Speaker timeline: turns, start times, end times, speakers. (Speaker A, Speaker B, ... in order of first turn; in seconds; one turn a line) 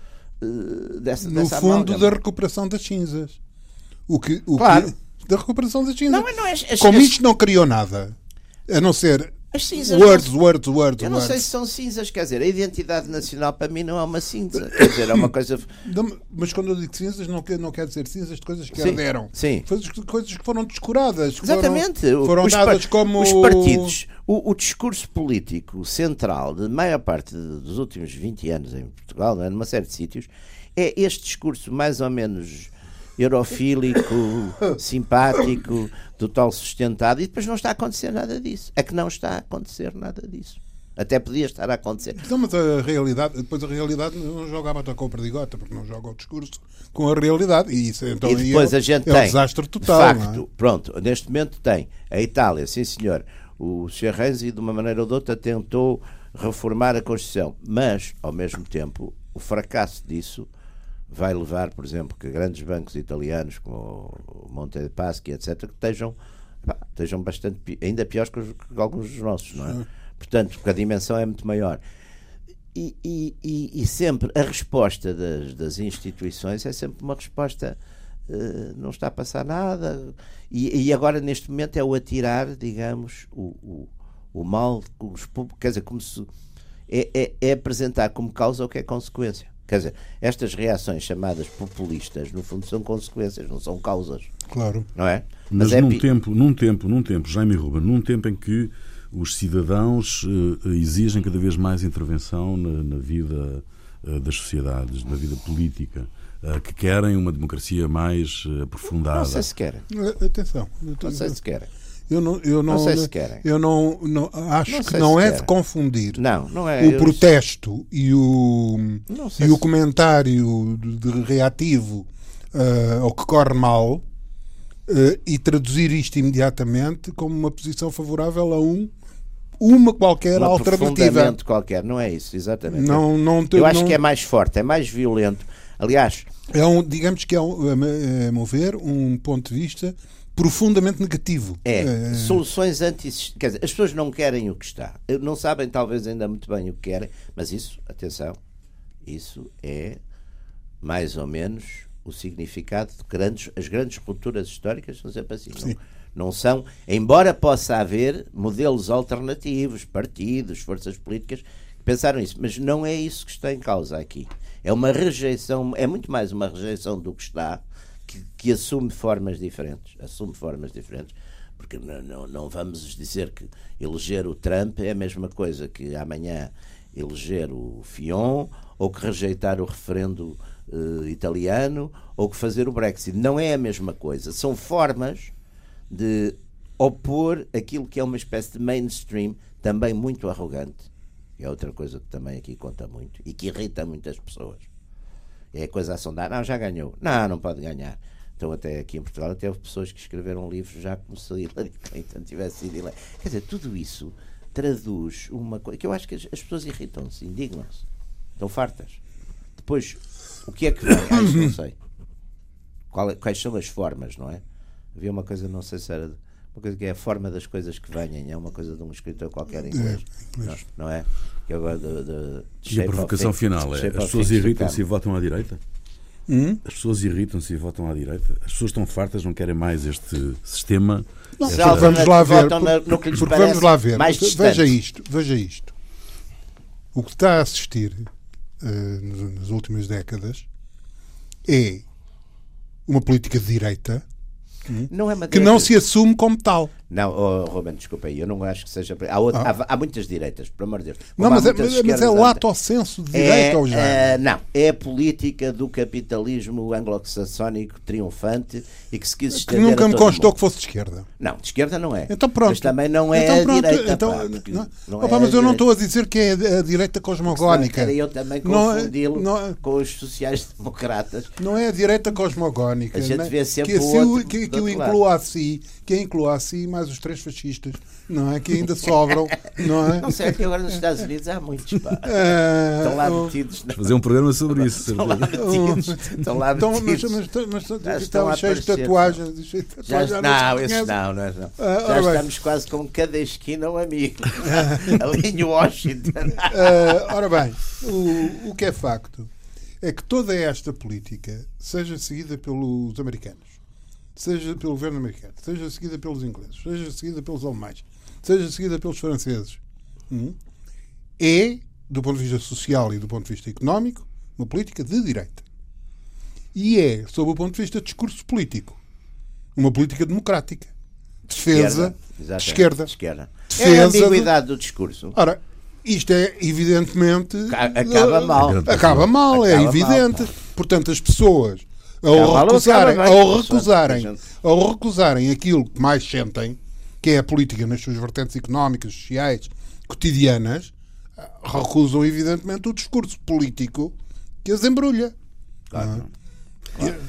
Speaker A: 0.4-2.1
Speaker B: 1.2-3.4
Speaker B: 4.1-6.2
Speaker A: 4.6-4.9
Speaker A: 6.1-7.2
Speaker B: 6.8-8.2
Speaker B: 8.7-11.5
Speaker A: 9.5-10.3
Speaker A: 11.0-15.7
Speaker B: 15.8-24.0
Speaker A: 18.7-19.7
Speaker A: 21.4-42.2
Speaker B: 42.2-50.4
Speaker A: 48.2-60.5
Speaker A: 61.1-71.8
Speaker A: 72.7-77.8
Speaker A: 78.3-86.2
Speaker A: 86.9-94.3
Speaker B: 94.5-94.9
Speaker A: 94.9-96.0
Speaker C: 95.5-109.5
Speaker A: 109.1-109.8
Speaker B: 109.9-111.4
Speaker A: 111.0-111.7
Speaker B: 112.1-116.2
Speaker A: 112.7-113.4
Speaker A: 114.7-115.5
Speaker A: 116.1-117.2
Speaker B: 116.8-124.0
Speaker A: 119.1-119.6
Speaker B: 124.9-128.9
Speaker B: 129.6-131.4
Speaker A: 130.4-136.3
Speaker B: 132.7-134.0
Speaker B: 136.5-142.4
Speaker A: 141.6-148.4
Speaker A: 149.1-150.0
Speaker A: 150.8-185.3
Speaker A: 185.9-194.7
Speaker A: 195.5-207.8
Speaker A: 208.4-209.0
Speaker A: 209.6-211.8
Speaker B: 211.1-211.6
Speaker A: 212.9-214.4
Speaker A: 214.9-224.8
Speaker B: 219.7-220.6
Speaker C: 222.7-225.6
Speaker B: 226.3-226.6
Speaker C: 226.6-232.0
Speaker B: 231.4-235.7
Speaker A: 231.4-234.7
Speaker B: 236.9-238.1
Speaker B: 238.6-240.4
Speaker B: 241.4-241.8
Speaker B: 242.9-244.1
Speaker B: 244.7-246.7
Speaker A: 244.9-245.7
Speaker A: 246.9-252.4
Speaker B: 251.2-254.2
Speaker A: 253.1-260.3
Speaker B: 259.3-261.1
Speaker A: 261.2-265.6
Speaker B: 262.1-269.6
Speaker A: 267.3-271.4
Speaker B: 271.4-280.8
Speaker A: 272.9-275.0
Speaker A: 279.4-284.0
Speaker B: 282.0-283.3
Speaker C: 283.7-285.4
Speaker A: 284.5-287.2
Speaker B: 285.3-290.9
Speaker A: 287.8-289.2
Speaker A: 289.8-297.1
Speaker B: 291.6-292.2
Speaker B: 294.4-295.1
Speaker B: 296.3-299.3
Speaker B: 299.8-303.6
Speaker B: 304.1-310.4
Speaker B: 311.2-315.4
Speaker B: 316.5-318.8
Speaker B: 319.6-320.7
Speaker B: 321.3-322.9
Speaker A: 321.5-325.1
Speaker B: 323.5-324.3
Speaker B: 325.1-345.1
Speaker A: 327.5-330.2
Speaker C: 328.4-329.1
Speaker A: 332.1-334.2
Speaker A: 345.7-346.1
Speaker B: 345.7-346.1